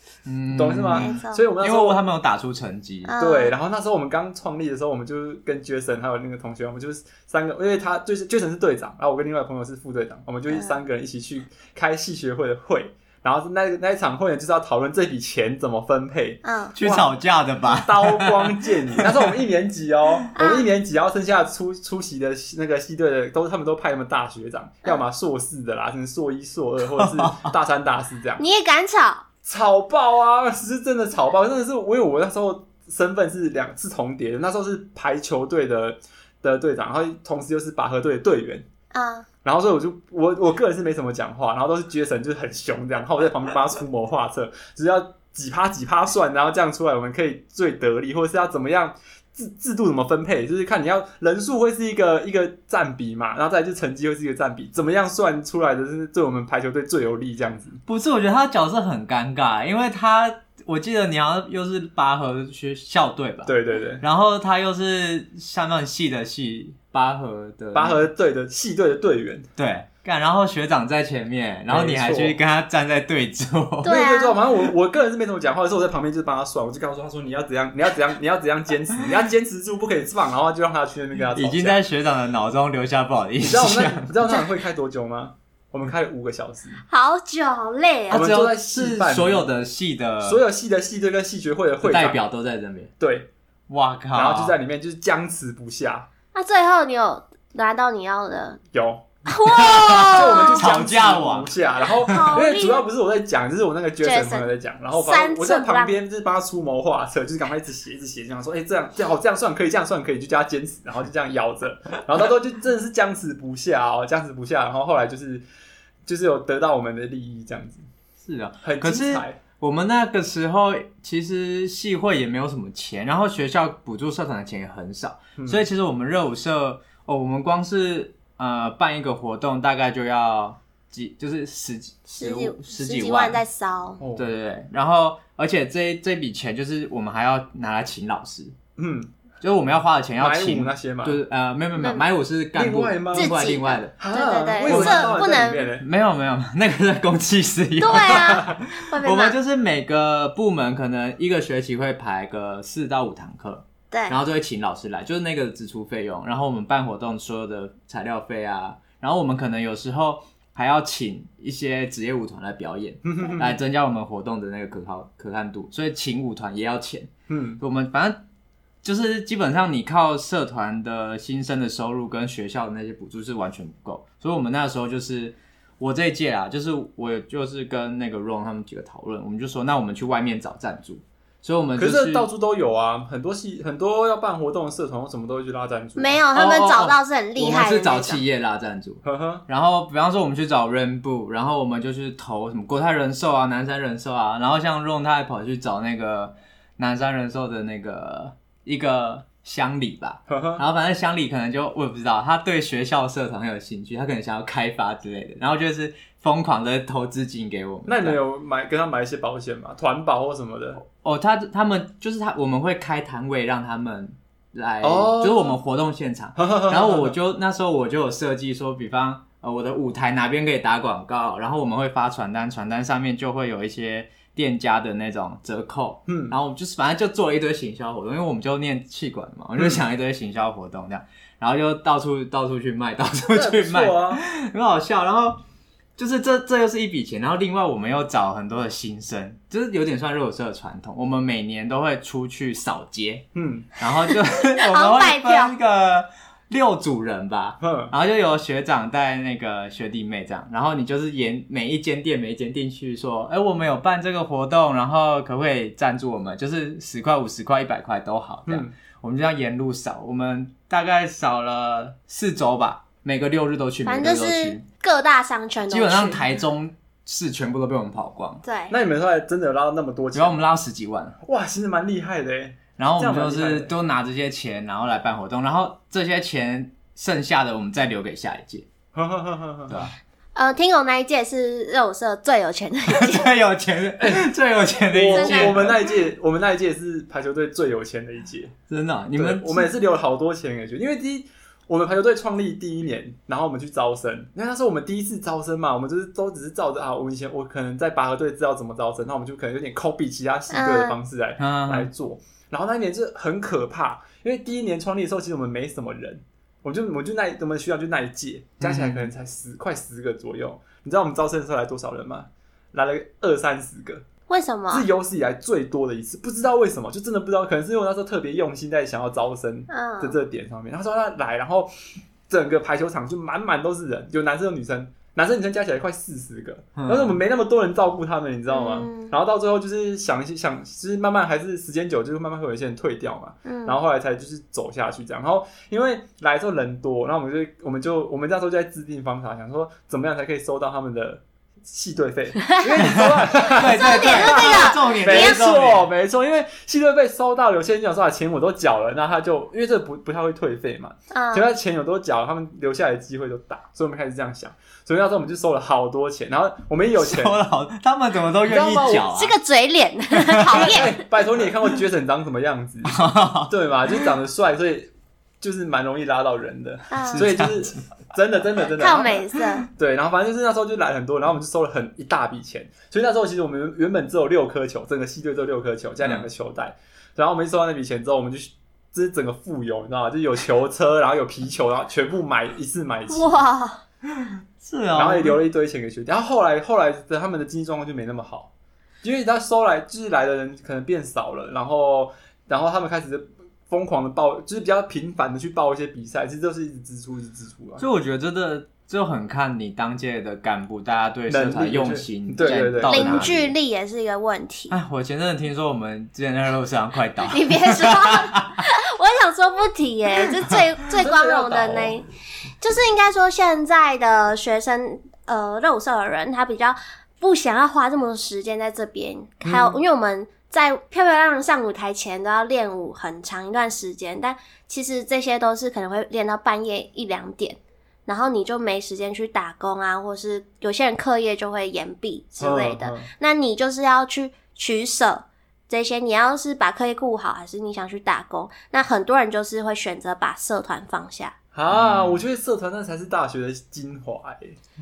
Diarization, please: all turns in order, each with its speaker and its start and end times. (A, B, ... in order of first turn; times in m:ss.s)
0:00.2-0:03.1 A
0:00.5-0:02.0 B
0:01.0-0:01.4 C
0:03.0-0:03.5 C
0:03.2-0:17.1 B
0:10.5-0:10.8 C
0:16.4-0:16.7 C
0:16.8-0:19.3 A
0:17.6-0:28.4 B
0:20.4-0:20.7 C
0:26.9-0:27.5 A
0:28.4-0:29.2 C
0:29.4-0:38.6 B
0:38.9-0:39.3 C
0:39.4-0:57.8 B
0:57.9-1:08.0 A
1:03.4-1:04.0 B
1:07.7-1:09.5 B
1:09.6-1:14.0 A
1:11.7-1:12.4 B
1:13.8-1:14.4 C
1:13.8-1:21.8 B
1:21.3-1:24.1 A
1:23.4-1:26.8 B
1:26.8-1:28.3 C
1:28.1-1:29.5 B
1:28.1-1:30.4 A
1:30.2-1:32.2 B
1:31.8-1:32.9 A
1:33.0-1:33.3 B
1:33.7-1:34.6 A
1:34.1-1:36.1 B
1:36.3-1:38.6 C
1:38.7-1:55.4 B
1:39.2-1:40.6 C
1:39.7-1:42.3 A
1:42.0-1:42.9 C
1:44.0-1:46.0 C
1:56.0-1:57.8 B
1:58.2-2:13.4 A
1:58.6-1:59.4 B
2:05.4-2:05.6 B
2:12.1-2:14.0 C
2:14.0-2:14.3 B
2:14.1-2:18.5 A
2:18.8-2:19.1 B
2:19.4-2:24.0 A
2:20.2-2:21.2 B
2:21.8-2:22.0 C
2:22.5-2:23.4 B
2:23.1-2:25.7 C
2:24.0-2:25.8 B
2:24.6-2:25.2 A
2:25.8-2:47.1 A
2:27.8-2:29.4 C
2:33.9-2:34.2 C
2:43.0-2:43.6 B
2:47.3-2:47.6 B
2:47.6-2:48.2 A
2:48.8-3:02.3 A
3:01.8-3:06.2 B
3:06.0-3:08.2 C
3:06.3-3:28.2 A
3:09.0-3:09.4 B
3:20.3-3:20.6 B
3:27.9-3:30.8 B
3:30.8-3:55.4 A
3:34.8-3:35.6 B
3:36.4-3:37.2 B
3:46.1-3:46.4 B
3:49.6-3:49.8 B
3:53.3-3:54.2 B
3:56.0-4:03.3 A
4:03.3-4:03.8 B
4:03.8-4:24.6 A
4:04.6-4:05.5 C
4:07.6-4:07.9 B
4:18.5-4:18.7 B
4:23.8-4:26.2 C
4:25.7-4:28.4 A
4:28.4-4:28.7 C
4:28.7-4:30.4 B
4:30.1-4:31.2 A
4:31.2-4:33.7 B
4:32.8-4:38.7 A
4:38.9-4:39.8 B
4:39.7-4:39.9 A
4:40.3-4:43.3 C
4:42.9-4:45.8 A
4:44.0-4:44.3 B
4:44.9-4:48.5 B
4:45.1-4:45.6 C
4:48.7-4:49.7 A
4:49.1-5:14.0 B
5:00.5-5:00.9 C
5:01.4-5:01.9 A
5:08.6-5:09.1 A
5:14.3-5:14.9 C
5:14.7-5:21.7 B
5:19.7-5:20.2 C
5:22.3-5:57.4 B
5:26.8-5:27.2 A
5:28.5-5:29.1 C
5:33.4-5:33.8 C
5:42.4-5:42.7 C
5:42.8-5:45.9 A
5:43.6-5:45.4 C
5:51.1-5:51.5 C
5:57.0-5:59.3 A
5:58.4-5:59.1 B
5:59.1-6:01.0 C
6:00.1-6:00.8 A
6:00.5-6:23.4 B
6:02.9-6:03.5 A
6:06.9-6:07.2 C
6:07.1-6:07.8 A
6:08.8-6:09.6 C
6:23.1-6:23.8 C
6:24.1-6:25.4 A
6:24.9-6:28.5 B
6:29.0-6:37.8 B
6:37.8-6:43.5 A
6:41.3-6:43.3 B
6:42.5-6:44.8 C
6:44.7-6:48.6 A
6:47.3-6:52.0 C
6:50.9-6:52.0 B
6:52.6-7:21.3 C
6:59.4-6:59.8 B
7:12.4-7:13.1 B
7:21.5-7:24.6 B
7:21.7-7:22.2 A